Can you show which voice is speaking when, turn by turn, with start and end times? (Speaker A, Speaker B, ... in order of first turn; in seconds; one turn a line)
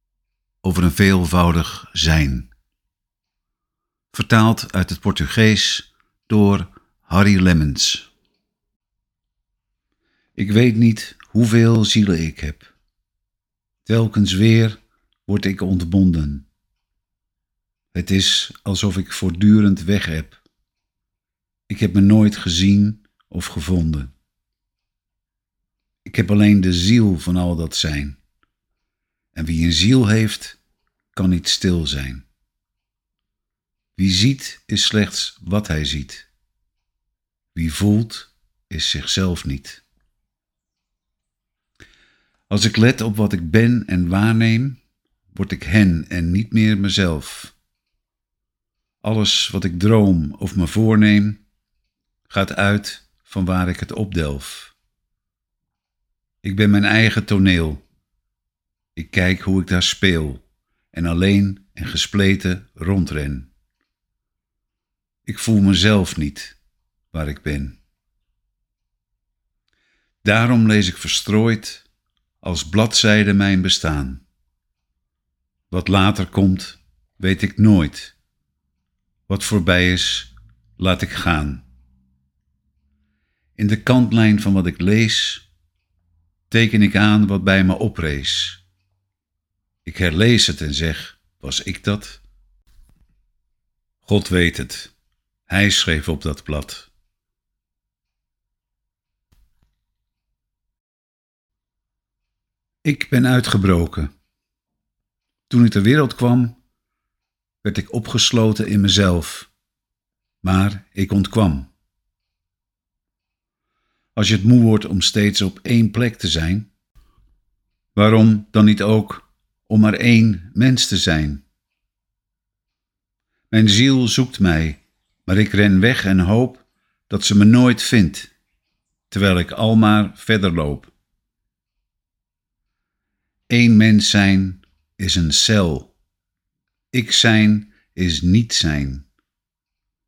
Speaker A: 0.6-2.5
Speaker A: 4.1-8.1
Speaker A: 10.4-12.7
Speaker A: 13.8-16.5
Speaker A: 17.9-20.4
Speaker A: 21.7-24.1
Speaker A: 26.1-28.2
Speaker A: 29.3-30.6
Speaker A: 31.1-32.2
Speaker A: 34.0-36.3
Speaker A: 37.5-39.8
Speaker A: 42.5-44.8
Speaker A: 45.3-47.5
Speaker A: 49.0-51.4
Speaker A: 52.3-54.8
Speaker A: 56.4-57.8
Speaker A: 59.0-63.5
Speaker A: 65.3-66.6
Speaker A: 67.1-67.8
Speaker A: 70.2-71.9
Speaker A: 72.4-74.2
Speaker A: 75.7-78.2
Speaker A: 79.3-81.6
Speaker A: 83.6-85.5
Speaker A: 86.5-88.6
Speaker A: 89.8-92.2
Speaker A: 94.0-94.9
Speaker A: 95.5-96.9
Speaker A: 102.8-104.1
Speaker A: 105.5-106.6
Speaker A: 107.6-109.5
Speaker A: 110.4-111.7
Speaker A: 114.2-116.7
Speaker A: 118.0-121.4
Speaker A: 123.5-128.3
Speaker A: 129.1-130.9
Speaker A: 133.5-135.9
Speaker A: 136.9-139.1